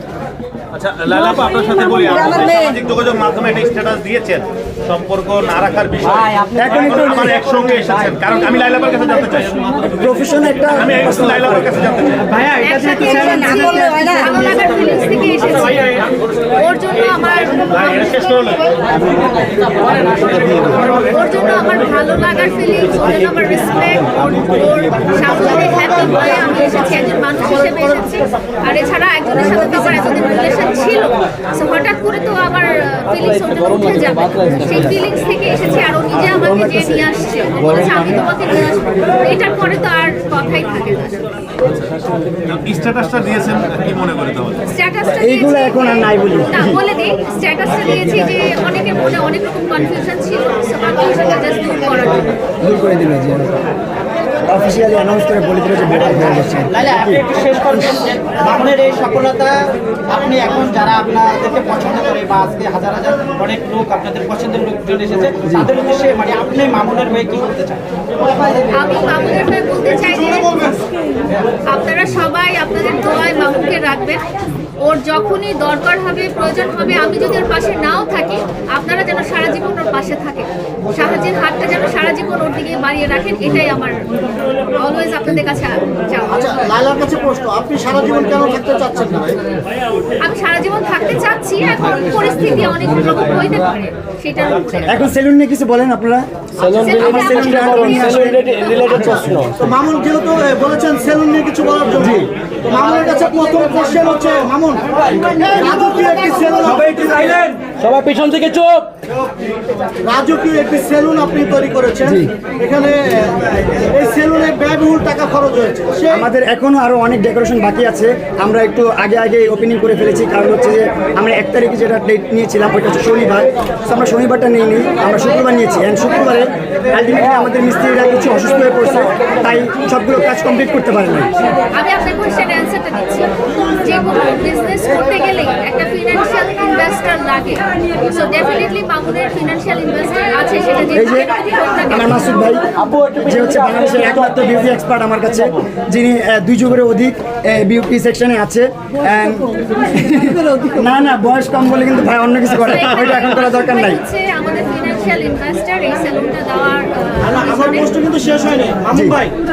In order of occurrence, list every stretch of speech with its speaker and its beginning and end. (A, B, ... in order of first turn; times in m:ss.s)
0:00.7-0:10.0 A
0:06.0-0:07.2 B
0:06.6-0:07.4 C
0:07.8-0:08.2 B
0:10.0-0:11.7 C
0:10.7-0:12.3 A
0:12.2-0:14.6 B
0:12.6-0:18.6 D
0:17.8-0:18.6 A
0:19.8-0:20.3 B
0:20.8-0:41.2 D
0:25.3-0:28.1 E
0:34.3-0:34.6 B
0:36.4-0:37.1 C
0:42.5-0:44.6 A
0:44.7-0:52.3 D
0:45.2-0:46.8 C
0:52.6-0:53.6 C
0:54.5-0:58.1 C
0:56.2-1:07.8 B
1:05.5-1:05.7 C
1:08.7-1:10.8 D
1:10.0-1:10.7 E
1:11.7-1:14.2 D
1:14.8-1:24.0 D
1:24.7-1:26.6 D
1:25.3-1:25.6 C
1:26.3-1:29.4 E
1:30.2-1:35.1 D
1:34.9-1:36.3 C
1:36.6-1:39.6 B
1:36.6-1:38.2 D
1:36.8-1:39.2 C
1:39.6-1:47.6 E
1:42.0-1:42.3 C
1:47.8-1:48.9 B
1:50.0-1:56.2 E
1:52.1-1:52.3 C
1:56.1-2:11.3 C
2:11.7-2:22.4 D
2:20.9-2:21.3 C
2:21.9-2:34.0 C
2:22.8-2:24.2 B
2:32.6-2:38.0 D
2:37.2-2:39.3 E
2:38.9-2:39.2 C